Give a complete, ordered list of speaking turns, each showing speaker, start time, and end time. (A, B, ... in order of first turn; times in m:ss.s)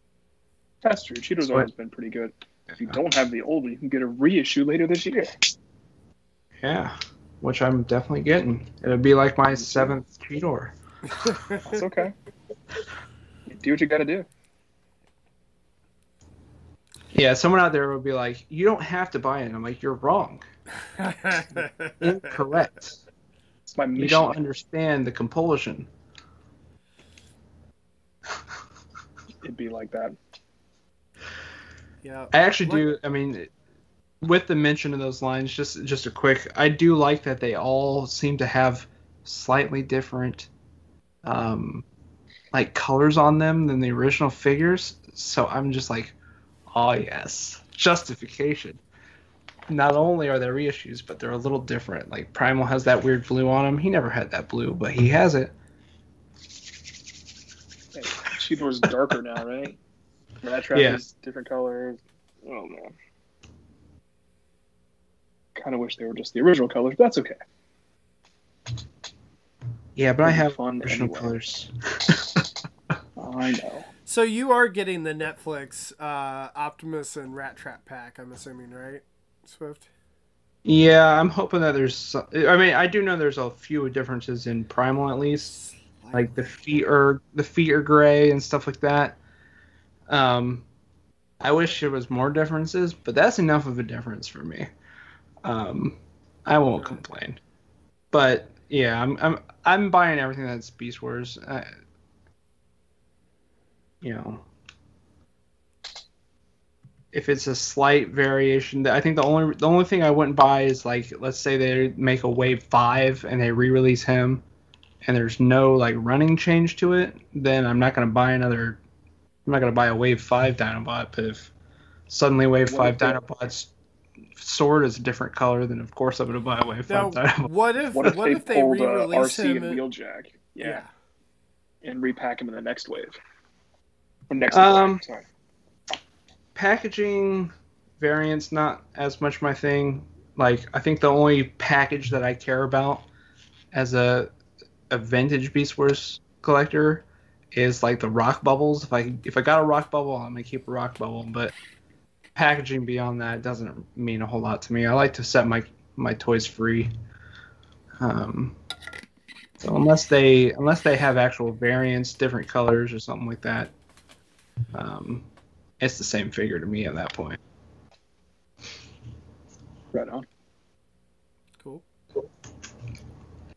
0:00.8-0:05.5 A
0:06.6-0:10.7 B
0:11.1-0:11.8 C
0:11.6-0:12.1 A
0:13.5-0:14.3 A
0:17.1-0:20.4 B
0:20.8-0:22.4 C
0:22.0-0:23.0 B
0:23.7-0:24.4 A
0:24.0-0:25.9 B
0:29.4-0:30.2 A
0:32.0-0:32.8 C
0:32.3-0:33.5 B
0:34.2-0:40.5 B
0:41.2-0:41.8 B
0:42.5-0:46.2 B
0:46.7-0:48.8 B
0:49.7-0:55.5 B
0:57.9-0:59.8 A
1:00.4-1:02.9 A
1:00.7-1:01.0 B
1:05.6-1:07.4 A
1:10.0-1:12.5 B
1:10.2-1:11.3 A
1:13.2-1:13.9 A
1:14.0-1:19.9 C
1:20.6-1:25.5 B
1:25.5-1:26.4 C
1:26.1-1:29.2 B
1:30.1-1:30.7 B
1:31.4-1:34.7 B
1:35.4-1:37.4 B
1:38.1-1:41.7 B
1:44.0-1:44.4 B
1:47.1-1:54.4 B
1:55.0-1:58.8 B
1:59.4-2:01.5 B
2:02.1-2:03.7 B
2:02.7-2:03.2 A
2:04.4-2:07.5 B
2:06.9-2:09.8 C
2:07.9-2:10.8 A
2:10.6-2:10.9 C
2:11.8-2:13.2 A
2:14.3-2:15.2 A
2:14.5-2:15.0 B
2:16.5-2:23.1 B
2:23.7-2:24.3 B
2:24.9-2:31.5 B
2:32.3-2:36.9 B
2:38.0-2:38.6 B
2:39.6-2:43.7 B
2:44.7-2:45.3 B
2:45.8-2:47.4 B
2:49.9-2:50.2 A
2:51.6-2:51.8 C